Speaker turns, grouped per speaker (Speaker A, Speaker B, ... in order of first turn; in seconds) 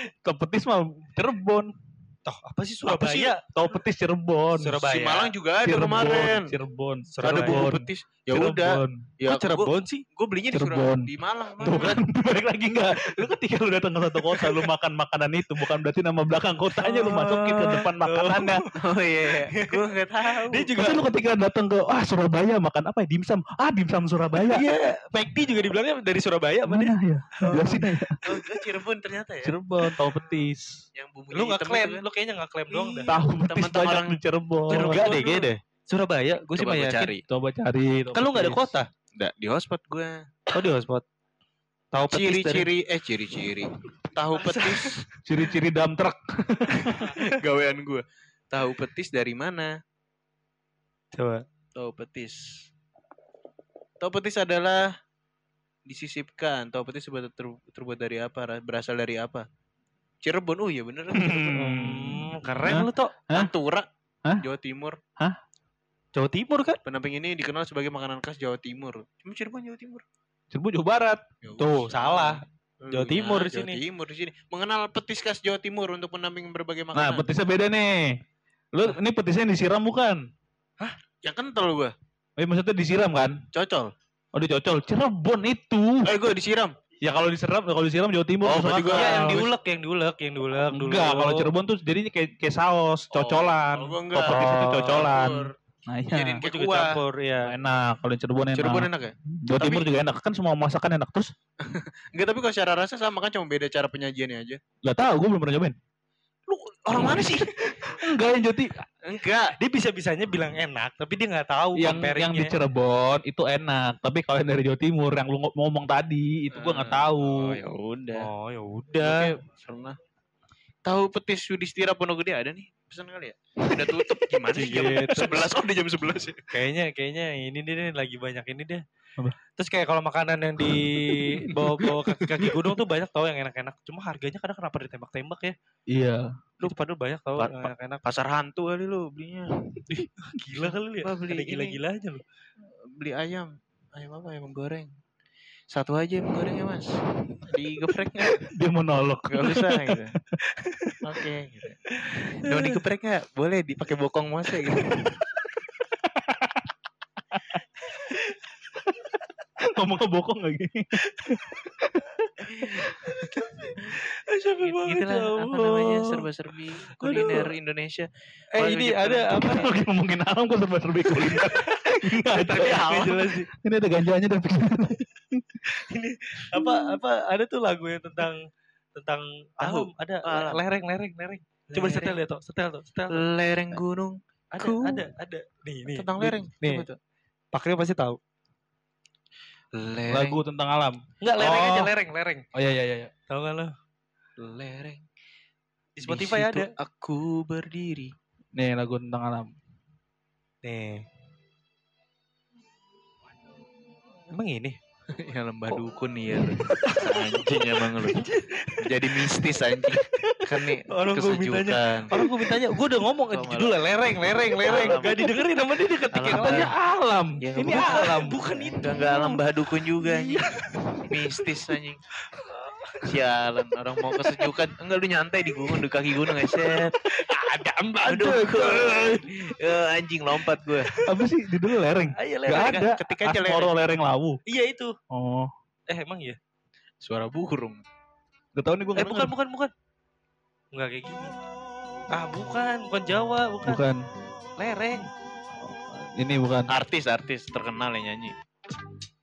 Speaker A: 0.2-1.7, 3.5-4.8, 5.6-9.0, 10.5-18.6, 20.8-24.6, 26.7-28.2, 29.4-30.8, 33.1-35.5, 37.3-38.8, 45.2-47.1, 61.1-63.5, 70.5-71.2, 76.9-80.2, 82.4-83.4, 84.3-86.1, 87.0-89.4, 90.7-96.4, 97.4-101.3, 104.8-105.8, 107.0-108.8, 111.8-117.6, 124.7-125.0, 130.6-132.5, 135.9-136.3, 148.5-149.8, 156.1-156.6, 157.3-157.6, 159.6-162.3, 169.3-175.8, 176.5-176.8, 190.1-191.9, 192.5-193.1, 198.6-199.5, 216.3-218.7, 231.0-234.4, 235.1-235.5, 238.5-239.3, 243.6-244.0, 246.1-246.7
Speaker B: 2.2-3.4, 4.6-5.3, 7.1-7.7, 9.3-10.0, 16.8-18.7, 19.5-19.8, 20.4-21.0, 24.5-28.5, 31.3-33.1, 34.7-37.1, 38.1-38.9, 40.5-41.0, 41.9-42.7, 44.3-45.0, 51.1-51.4, 61.5-63.1, 66.1-66.8, 71.6-73.8, 88.9-91.5, 94.3-95.1, 96.1-97.5, 109.6-112.5, 118.2-119.3, 124.5-125.5, 126.5-128.8, 129.6-135.5, 136.6-138.0, 139.9-142.2, 151.9-152.7, 154.8-155.1, 158.0-158.3, 161.1-161.4, 162.8-166.2, 167.0-167.5, 168.5-169.7, 171.1-173.5, 175.9-183.2, 184.5-186.8, 187.5-188.2, 191.2-192.4, 193.3-193.7, 196.0-196.7, 200.6-201.0, 204.3-204.8, 206.6-209.3, 210.9-216.7, 217.6-219.4, 220.0-220.5, 222.3-223.1, 226.6-229.5, 232.1-232.9, 234.5-234.9, 235.9-236.4, 238.9-239.7, 240.7-241.3, 242.1-243.8, 244.6-245.1
Speaker C: 2.9-3.3, 4.9-6.5, 7.2-12.0, 17.0-17.8, 18.8-20.7, 28.2-29.6, 30.9-32.0, 32.7-35.5, 36.5-37.2, 39.2-40.3, 42.1-45.0, 46.9-49.7, 51.8-52.4, 54.0-54.8, 55.9-59.4, 60.2-61.5, 63.3-63.9, 64.4-65.0, 66.8-70.0, 71.4-77.3, 81.2-81.9, 83.5-83.9, 86.0-86.8, 88.4-89.5, 93.1-95.5, 96.3-97.0, 98.5-99.9, 101.6-104.6, 106.5-107.9, 109.0-109.5, 116.5-118.3, 119.0-120.0, 120.8-126.5, 137.4-139.6, 141.0-141.8, 142.8-144.9, 145.7-146.9, 147.5-148.5, 149.3-150.1, 151.0-151.8, 152.4-155.1, 164.6-169.7, 172.6-173.1, 179.6-180.6, 181.7-182.2, 183.1-185.1, 185.9-187.0, 189.7-190.4, 194.4-195.1, 196.0-198.1, 205.1-208.2, 208.8-212.1, 213.3-213.9, 214.6-215.4, 216.1-216.7, 217.4-220.5, 221.0-222.0, 223.0-226.9, 228.0-230.9, 232.5-233.7, 237.0-237.8, 246.7-248.3